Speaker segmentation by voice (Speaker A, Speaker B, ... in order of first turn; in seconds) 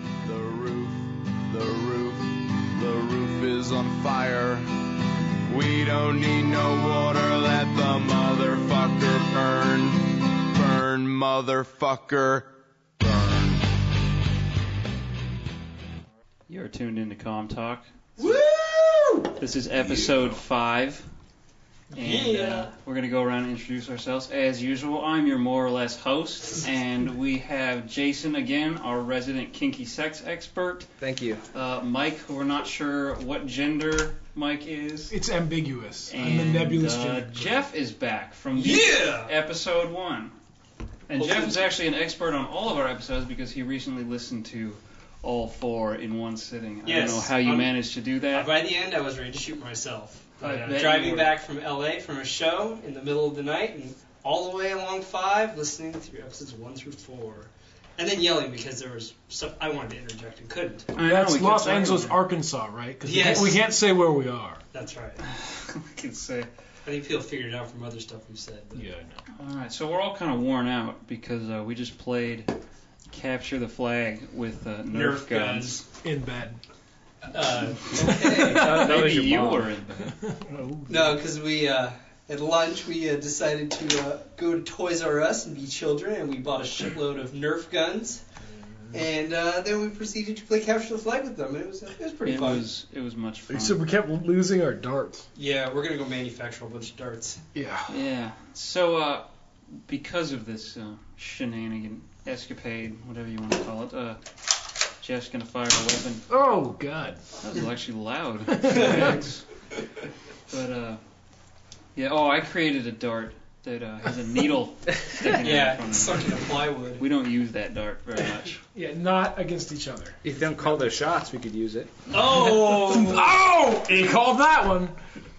Speaker A: 0.2-4.7, 5.5-13.7
Speaker B: 16.5-17.9, 19.4-21.1, 21.9-30.9, 31.5-35.1, 36.1-40.4, 41.1-48.5, 50.4-51.4, 61.0-62.2, 65.2-66.5, 69.3-72.5, 73.1-75.8, 78.6-80.2, 92.2-93.8, 97.9-104.2, 105.0-106.3, 107.4-109.5, 110.5-111.0, 112.0-118.6
Speaker C: 18.2-19.4, 21.9-22.7, 38.5-39.3, 41.1-41.6, 46.9-47.8, 48.3-60.9, 63.0-63.6, 64.7-65.2, 66.8-68.9, 74.9-75.8, 77.3-78.8, 80.9-88.2, 88.9-92.7, 95.3-97.4, 108.7-109.2, 115.3-117.0, 122.1-123.3
Speaker D: 31.0-31.4, 78.5-79.7, 120.2-121.9
Speaker E: 35.1-37.7, 61.0-64.6, 68.8-69.2, 76.0-76.6, 77.9-79.1, 80.0-81.2, 93.5-95.3, 97.5-97.9, 106.3-107.2, 108.5-109.1, 118.7-120.8, 122.4-125.0